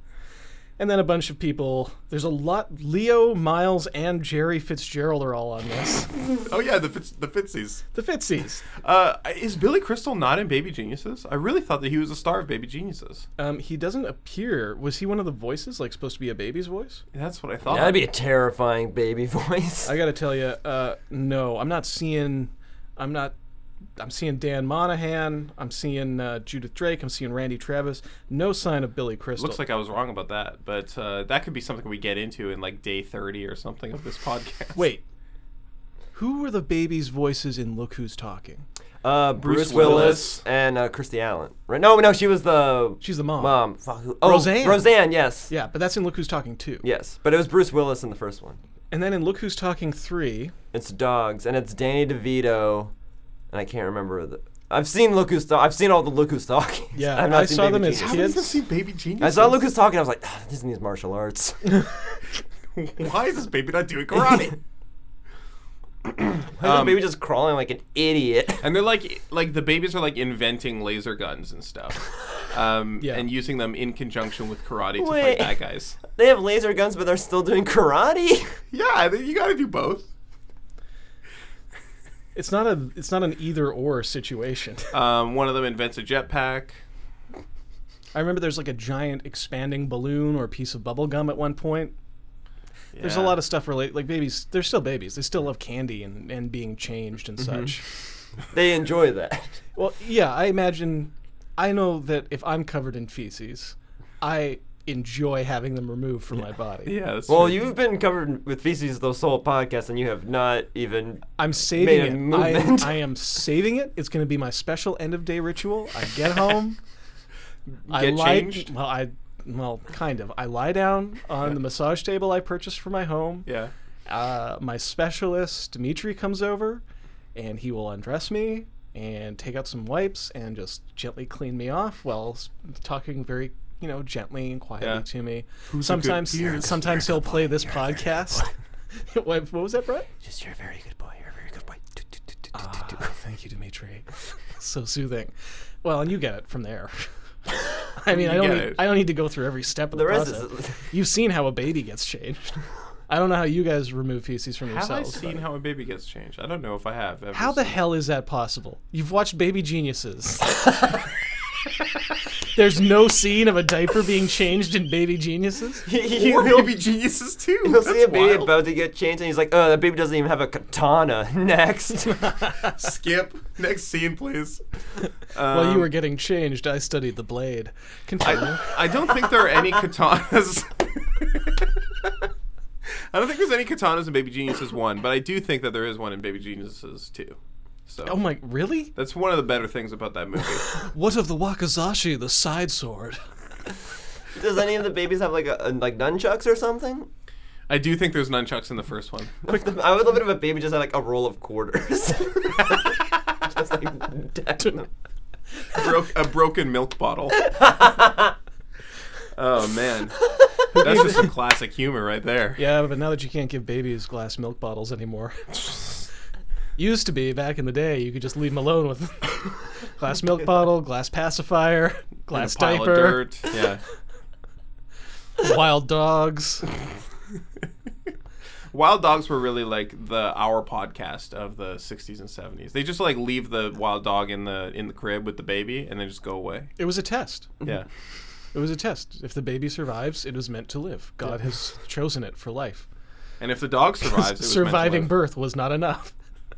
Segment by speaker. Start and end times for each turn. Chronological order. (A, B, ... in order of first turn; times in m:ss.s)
0:00.8-0:06.1 A
0:06.4-0:07.8 B
0:07.9-0:08.6 A
0:08.8-0:13.2 B
0:13.4-0:17.0 A
0:17.1-0:18.0 B
0:17.7-0:19.9 C
0:19.8-0:23.3 A
0:24.0-0:29.6 A
0:29.4-0:34.9 B
0:34.8-0:35.0 A
0:36.1-0:38.6 A
0:39.0-0:45.5 C
0:39.4-0:40.4 B
0:39.7-0:40.4 A
0:43.0-0:43.6 A
0:44.2-0:44.9 A
0:45.5-0:46.8 A
0:46.8-0:48.6 C
0:48.9-0:50.5 A
0:50.7-0:52.9 C
0:53.5-0:58.4 C
0:56.9-0:58.5 A
0:57.9-0:59.6 B
0:59.2-1:01.8 C
1:02.8-1:04.6 B
1:06.5-1:08.7 C
1:06.6-1:07.0 B
1:08.6-1:16.0 B
1:13.0-1:13.2 A
1:15.0-1:15.5 C
1:16.0-1:18.5 C
1:18.7-1:20.1 B
1:22.3-1:24.9 A
1:24.9-1:26.8 B
1:28.1-1:31.9 A
1:32.9-1:33.4 B
1:33.0-1:37.8 A
1:38.5-1:39.6 C
1:39.8-1:46.9 A
1:46.8-1:47.6 B
1:47.3-1:53.0 C
1:51.4-1:56.8 A
1:57.9-1:58.7 B
1:57.9-2:03.5 A
2:03.4-2:03.7 B
2:04.1-2:06.8 A
2:07.3-2:18.5 A
2:15.7-2:16.9 B
2:17.5-2:18.5 C
2:19.1-2:20.1 A
2:20.2-2:22.1 C
2:22.5-2:25.3 A
2:25.8-2:27.1 A
2:27.8-2:35.4 A
2:28.1-2:28.9 B
2:29.9-2:30.8 C
2:34.7-2:37.8 B
2:37.3-2:40.6 A
2:42.6-2:45.8 A
2:45.8-2:46.8 C
2:46.1-2:48.5 B
2:47.6-2:52.3 C
2:52.2-2:52.7 A
2:52.7-2:54.6 B
2:55.3-2:55.9 B
2:55.4-2:58.6 A
2:58.2-3:02.1 B
3:03.1-3:08.2 B
3:08.0-3:08.9 A
3:08.9-3:10.8 B
3:10.8-3:13.2 A
3:14.4-3:17.1 C
3:17.7-3:19.3 B
3:19.4-3:24.9 C
3:25.7-3:27.5 B
3:27.4-3:28.3 C
3:29.3-3:30.2 B
3:30.7-3:31.3 A
3:30.7-3:32.6 B
3:32.6-3:36.0 A
3:36.8-3:43.3 A
3:42.3-3:43.8 B
3:45.4-3:46.7 A
3:48.7-3:56.7 B
3:56.8-3:57.5 A
3:58.5-4:02.9 A
4:03.4-4:05.1 B
4:04.2-4:06.1 A